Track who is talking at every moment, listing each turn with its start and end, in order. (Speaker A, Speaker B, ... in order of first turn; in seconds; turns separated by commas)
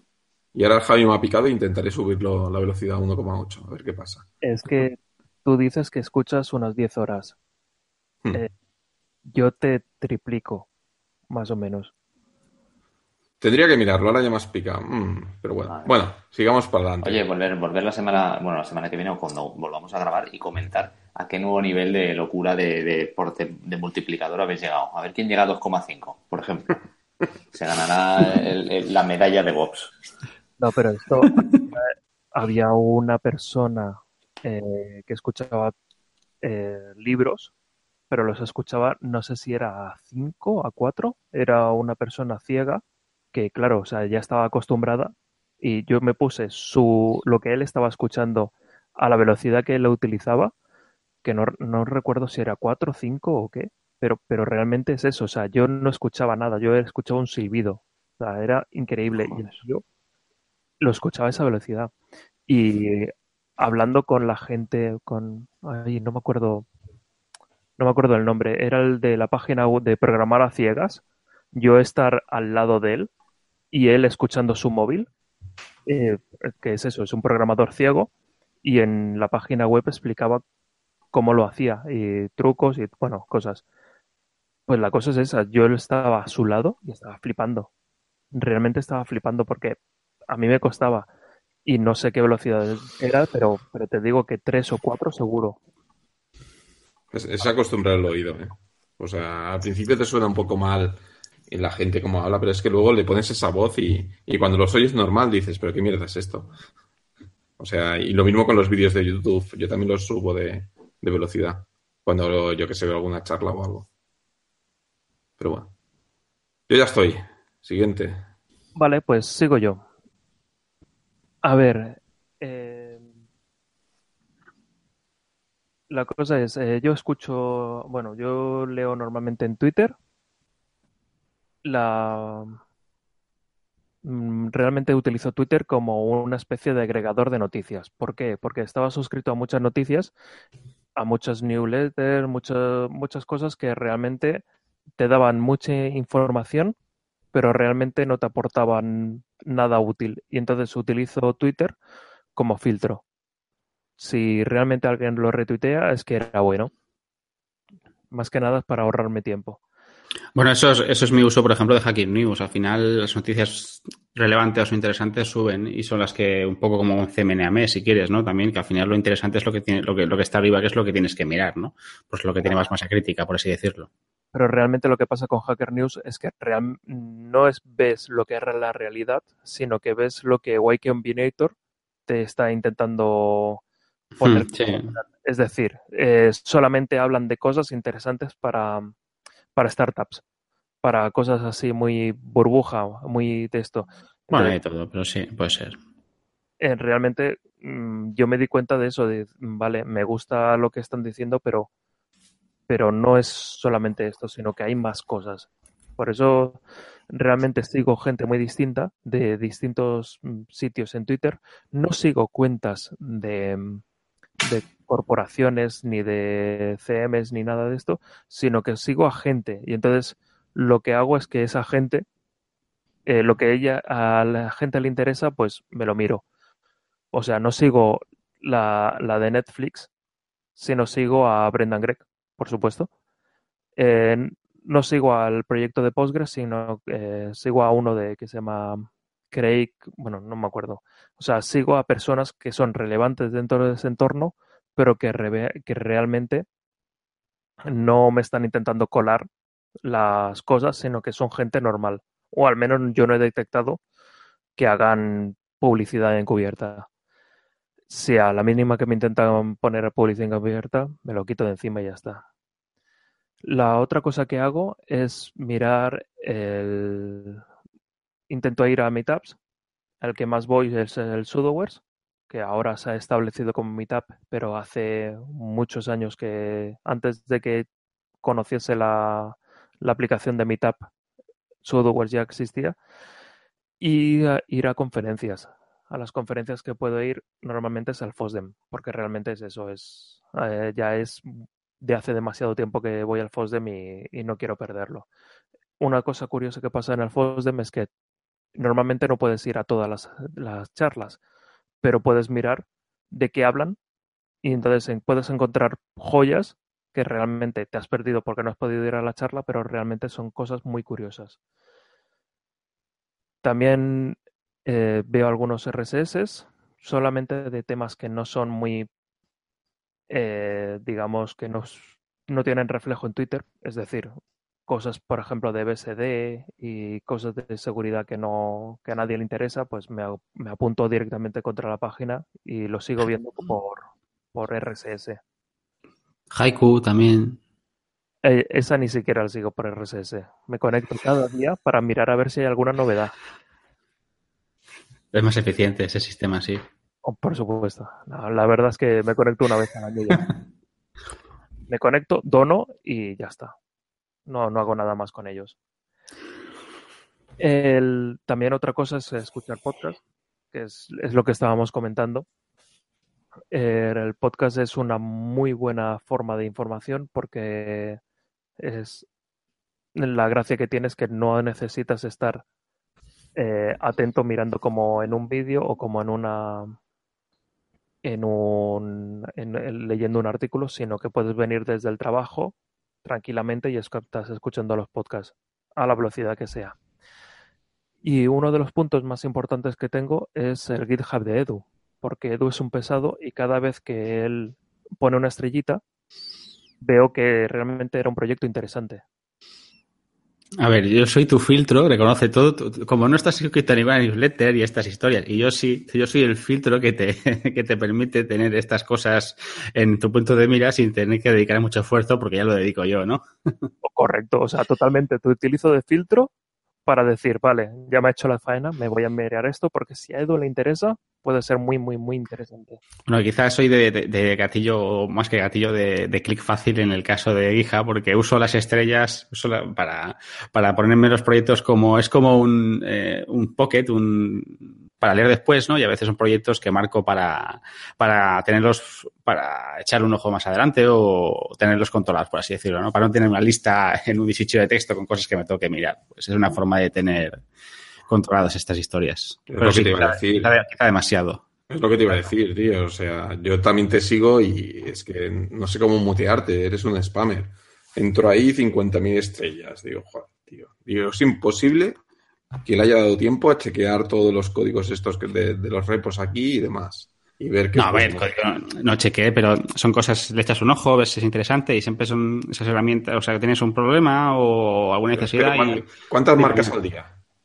Speaker A: 0.5-4.3, Speaker B: 4.4-7.4, Speaker B: 9.3-10.7, Speaker B: 11.3-11.9, Speaker A: 13.4-17.2, Speaker C: 15.7-15.9, Speaker C: 17.0-26.8, Speaker C: 27.5-29.9, Speaker B: 30.6-35.7, Speaker B: 36.4-37.5, Speaker B: 38.1-50.5, Speaker B: 51.2-59.8, Speaker B: 60.8-61.9, Speaker B: 62.5-66.7, Speaker B: 67.8-71.0, Speaker B: 71.5-73.1, Speaker B: 73.7-75.1, Speaker B: 75.8-78.1, Speaker B: 78.6-80.4, Speaker B: 81.1-83.6, Speaker B: 84.7-87.7, Speaker B: 88.3-89.8, Speaker B: 90.3-91.1, Speaker B: 91.6-95.6, Speaker A: 97.1-106.5, Speaker A: 107.6-113.9, Speaker A: 115.4-115.7, Speaker A: 116.7-118.2, Speaker B: 118.8-119.8, Speaker B: 121.4-123.1, Speaker B: 125.9-129.9, Speaker B: 131.6-132.6, Speaker B: 134.0-140.1, Speaker B: 140.9-144.4, Speaker B: 145.0-146.7, Speaker B: 147.3-151.7, Speaker B: 152.3-153.0, Speaker B: 154.0-156.7, Speaker B: 158.1-159.6, Speaker D: 160.3-173.9, Speaker B: 174.3-181.5, Speaker B: 182.1-183.6, Speaker D: 184.2-184.9, Speaker B: 184.2-188.9, Speaker B: 189.6-190.2, Speaker B: 190.8-194.6, Speaker D: 194.3-195.8, Speaker B: 196.6-201.7, Speaker B: 202.7-205.5, Speaker B: 206.0-206.6, Speaker B: 207.1-213.8, Speaker B: 214.4-222.0, Speaker B: 223.1-226.2, Speaker B: 227.1-229.9, Speaker B: 230.6-232.9, Speaker B: 233.8-246.4, Speaker B: 247.7-249.3, Speaker B: 249.8-253.8, Speaker B: 254.6-256.9, Speaker B: 257.9-262.2, Speaker B: 263.4-267.4, Speaker B: 268.3-269.4, Speaker B: 270.0-277.7, Speaker B: 278.2-280.9, Speaker B: 281.6-282.8, Speaker B: 283.8-295.1, Speaker B: 295.8-297.9, Speaker B: 298.6-301.2, Speaker B: 301.8-303.8, Speaker B: 304.4-311.4, Speaker B: 313.4-318.9, Speaker B: 320.1-324.1, Speaker B: 324.7-335.2, Speaker D: 336.3-337.4, Speaker B: 338.2-343.1, Speaker D: 345.1-346.6, Speaker B: 347.0-350.3, Speaker B: 351.7-353.5, Speaker B: 354.3-355.6, Speaker B: 357.4-360.0, Speaker B: 360.5-362.2, Speaker B: 363.5-368.0, Speaker B: 368.6-369.1, Speaker B: 369.9-372.4, Speaker B: 373.4-376.8, Speaker B: 378.0-386.7, Speaker B: 388.0-395.8, Speaker B: 396.8-399.0, Speaker D: 400.6-413.2, Speaker B: 413.8-416.3, Speaker B: 416.9-422.8, Speaker D: 423.1-447.4, Speaker D: 448.1-451.4, Speaker A: 449.5-450.5, Speaker A: 451.7-462.0, Speaker A: 462.6-468.3, Speaker D: 467.7-476.7, Speaker A: 475.1-477.1